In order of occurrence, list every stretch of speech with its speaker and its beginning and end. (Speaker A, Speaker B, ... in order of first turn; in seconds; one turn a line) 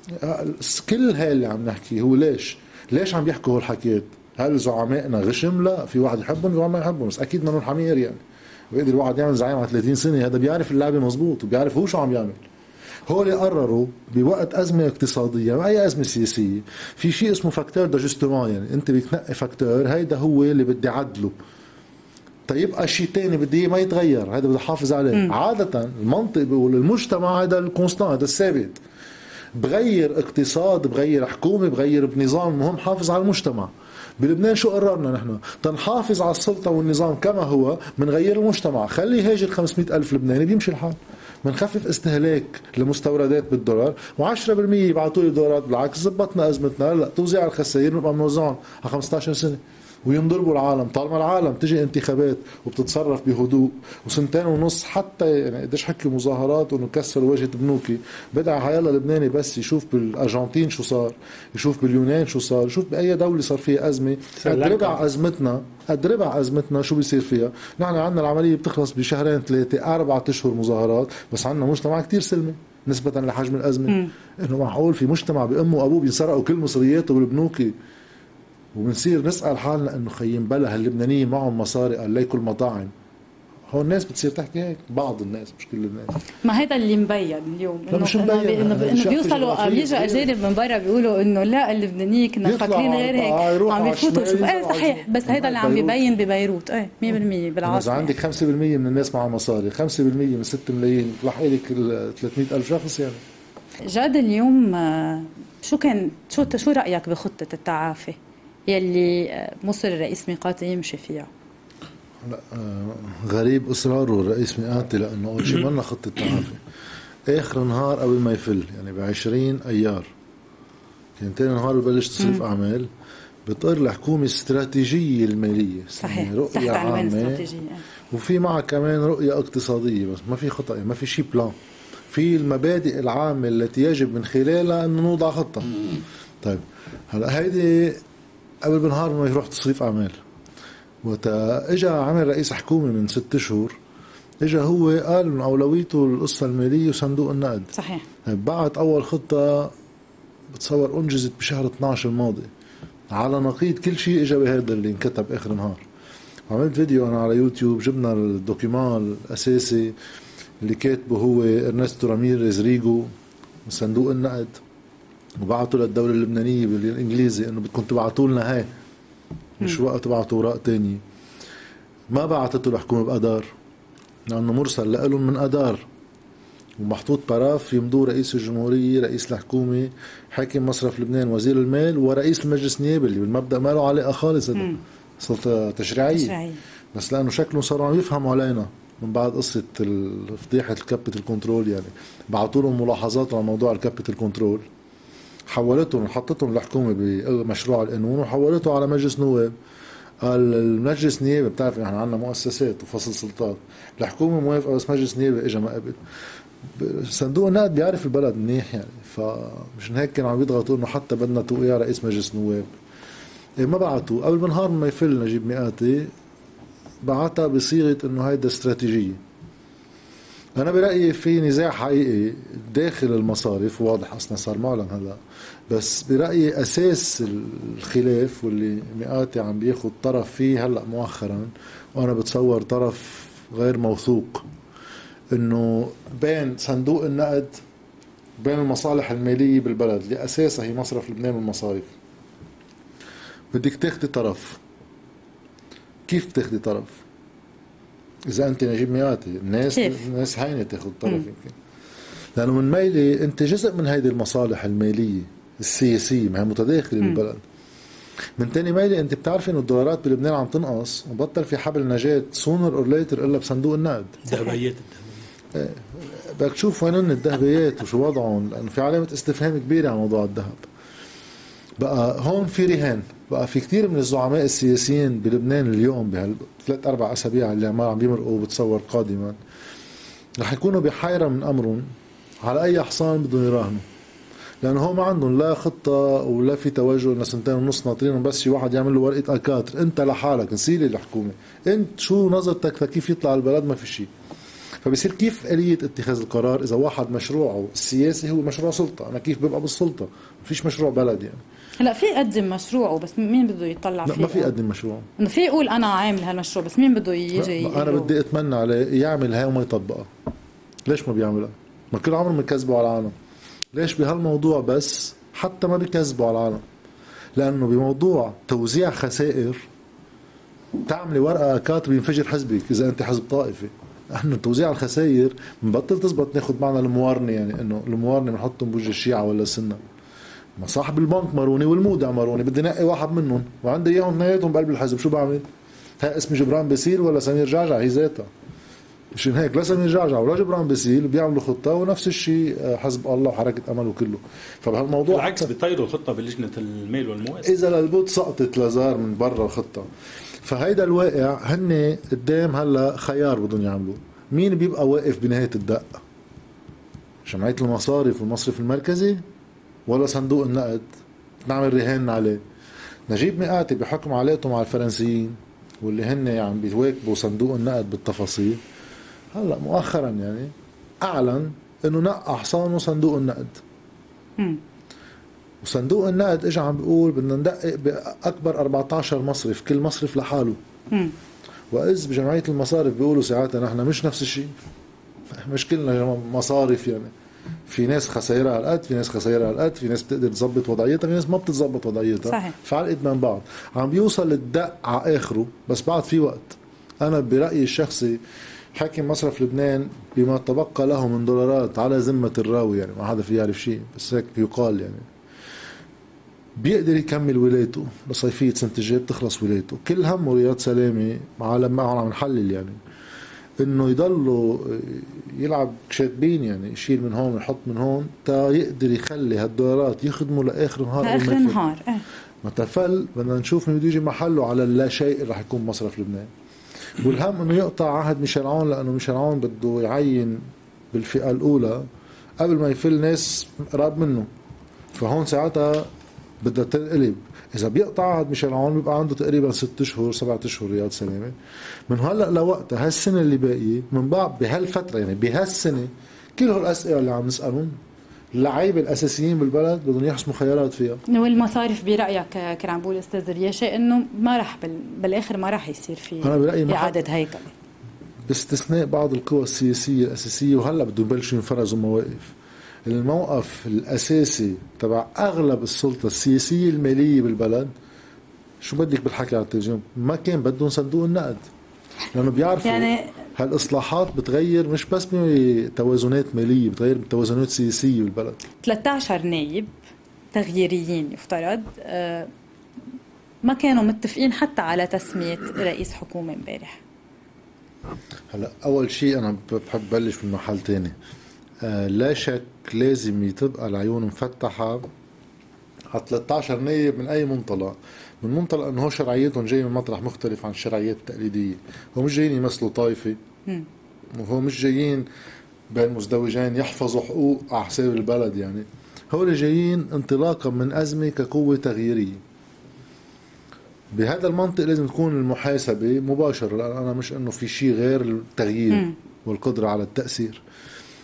Speaker A: 0.1-8.2
Speaker A: 8.7-12.4
Speaker A: 13.1-21.4
Speaker A: 22.5-28.8
Speaker A: 29.5-77.8
Speaker B: 64.4-65.0
Speaker A: 78.7-82.9
Speaker A: 83.7-86.2
Speaker C: 86.4-98.2
Speaker A: 87.9-90.3
Speaker A: 92.4-96.0
Speaker A: 97.6-103.2
Speaker C: 103.8-111.3
Speaker A: 112.2-116.6
Speaker A: 117.3-120.1
Speaker A: 121.2-122.9
Speaker C: 122.2-122.4
Speaker A: 123.5-127.5
Speaker C: 126.0-127.8
Speaker A: 128.1-131.5
Speaker A: 132.1-138.0
Speaker A: 138.6-140.2
Speaker A: 141.0-143.8
Speaker A: 144.4-147.7
Speaker C: 147.7-148.1
Speaker A: 148.2-149.7
Speaker A: 150.5-152.5
Speaker A: 153.1-155.8
Speaker A: 156.5-159.9
Speaker A: 160.6-163.1
Speaker A: 163.6-164.6
Speaker A: 165.4-168.7
Speaker A: 169.6-171.0
Speaker A: 172.1-173.5
Speaker A: 174.3-175.8
Speaker A: 176.8-186.4
Speaker C: 184.5-184.8
Speaker C: 186.1-186.6
Speaker A: 186.9-194.6
Speaker A: 195.5-199.5
Speaker A: 200.2-206.0
Speaker A: 206.7-212.7
Speaker A: 213.6-216.1
Speaker A: 217.0-219.2
Speaker A: 220.6-234.4
Speaker A: 235.3-237.6
Speaker A: 238.4-241.9
Speaker A: 243.5-244.6
Speaker A: 246.1-247.0
Speaker A: 248.3-251.5
Speaker C: 249.7-250.0
Speaker A: 252.3-257.4
Speaker A: 258.4-264.4
Speaker B: 264.3-265.2
Speaker A: 265.5-270.7
Speaker A: 271.8-279.4
Speaker A: 280.4-281.9
Speaker A: 282.4-283.8
Speaker A: 284.6-294.1
Speaker A: 294.8-301.4
Speaker C: 301.8-304.5
Speaker A: 304.0-305.1
Speaker C: 305.2-308.1
Speaker A: 307.3-310.1
Speaker A: 310.9-313.1
Speaker A: 313.7-316.6
Speaker A: 317.4-319.6
Speaker A: 320.9-329.8
Speaker A: 330.6-335.4
Speaker A: 336.0-338.3
Speaker A: 339.1-345.5
Speaker B: 345.1-347.5
Speaker A: 347.4-349.9
Speaker A: 350.4-356.0
Speaker A: 357.2-359.2
Speaker A: 359.9-360.9
Speaker A: 361.4-362.4
Speaker A: 363.1-368.6
Speaker A: 369.3-373.6
Speaker A: 375.6-380.6
Speaker A: 381.7-384.5
Speaker A: 385.3-387.1
Speaker A: 387.7-398.2
Speaker C: 392.2-392.5
Speaker A: 398.7-405.1
Speaker A: 406.6-412.8
Speaker A: 413.6-421.6
Speaker C: 421.0-422.0
Speaker A: 422.4-426.3
Speaker A: 427.0-431.9
Speaker A: 432.4-434.3
Speaker A: 434.9-435.9
Speaker A: 436.4-441.3
Speaker A: 441.9-447.8
Speaker A: 448.3-451.0
Speaker C: 451.1-457.5
Speaker A: 456.2-457.0
Speaker A: 458.3-462.3
Speaker A: 462.9-467.7
Speaker A: 468.6-471.4
Speaker A: 472.1-478.4
Speaker C: 472.6-473.1
Speaker C: 478.6-479.7
Speaker C: 480.3-482.3
Speaker C: 483.4-486.8
Speaker A: 488.3-490.9
Speaker A: 491.6-494.9
Speaker A: 495.9-503.2
Speaker A: 504.1-505.1
Speaker A: 505.7-512.2
Speaker A: 513.9-520.4